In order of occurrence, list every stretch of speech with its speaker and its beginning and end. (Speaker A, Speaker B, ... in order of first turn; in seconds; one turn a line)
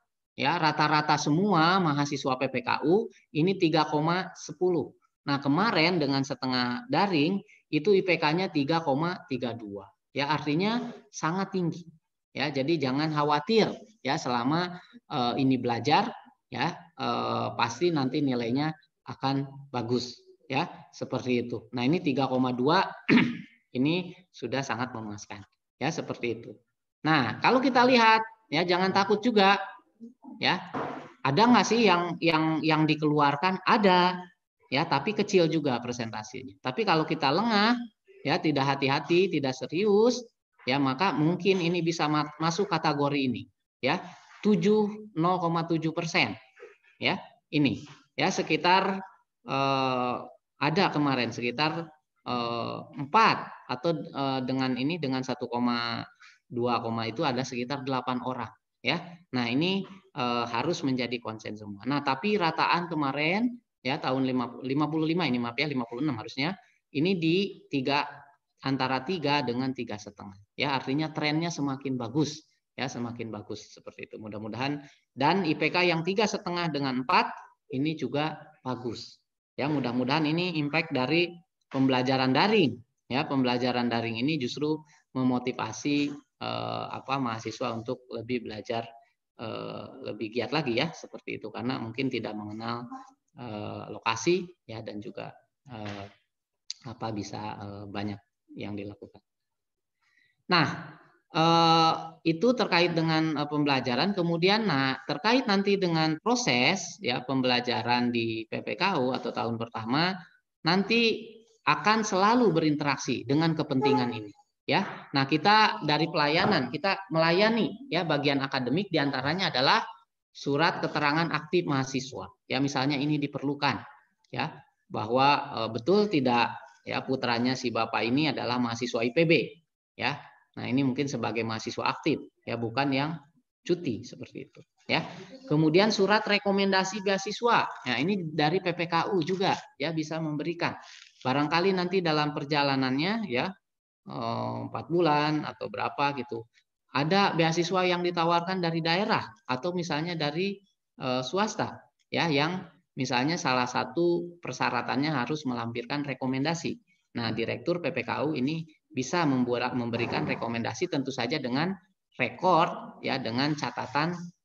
Speaker A: 0.4-29.6
Speaker A: 31.2-34.1
Speaker A: 34.7-46.4
Speaker A: 47.0-48.9
Speaker A: 49.5-68.0
Speaker A: 68.7-88.8
Speaker A: 89.4-92.8
Speaker A: 93.4-96.1
Speaker A: 96.9-99.2
Speaker A: 100.5-110.1
Speaker A: 110.7-119.8
Speaker A: 120.4-123.8
Speaker A: 124.3-133.1
Speaker A: 133.7-143.5
Speaker A: 144.1-146.4
Speaker A: 147.0-164.1